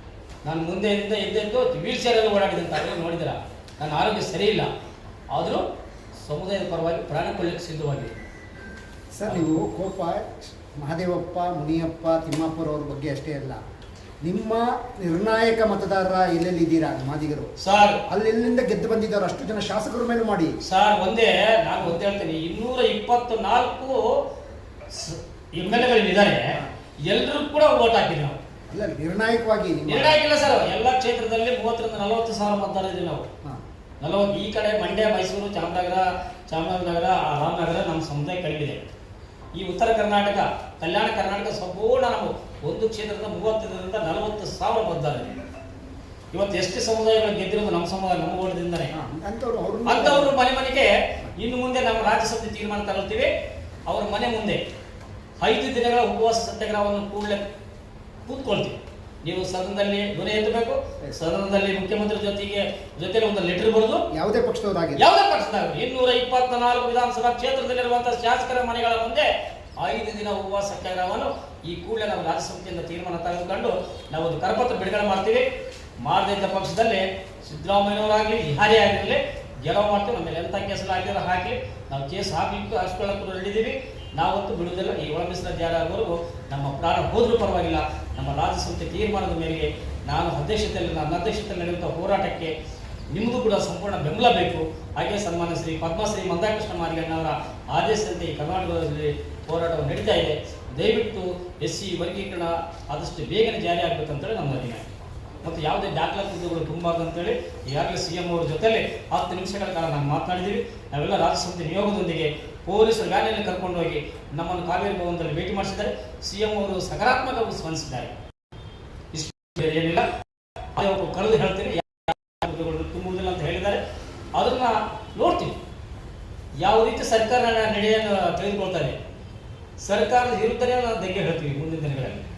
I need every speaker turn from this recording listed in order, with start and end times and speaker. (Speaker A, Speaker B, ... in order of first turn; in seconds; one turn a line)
Speaker A: 0.4-4.7
Speaker A: 5.3-5.6
Speaker A: 6.2-8.2
Speaker B: 9.1-13.6
Speaker B: 14.2-17.5
Speaker A: 17.6-18.0
Speaker B: 18.1-20.6
Speaker A: 20.6-24.1
Speaker A: 24.9-26.5
Speaker A: 27.1-28.4
Speaker B: 28.7-30.1
Speaker A: 29.9-33.2
Speaker A: 34.0-38.8
Speaker A: 39.5-45.4
Speaker A: 46.3-48.9
Speaker B: 48.9-50.3
Speaker A: 49.9-53.3
Speaker A: 53.9-54.6
Speaker A: 55.4-57.4
Speaker A: 58.3-64.0
Speaker B: 64.1-65.0
Speaker A: 65.0-69.3
Speaker A: 69.8-75.5
Speaker A: 76.0-92.5
Speaker A: 93.1-104.8
Speaker A: 105.4-118.1
Speaker A: 119.1-120.1
Speaker A: 120.8-123.8
Speaker A: 124.4-125.6
Speaker A: 126.6-128.9
Speaker A: 129.8-132.2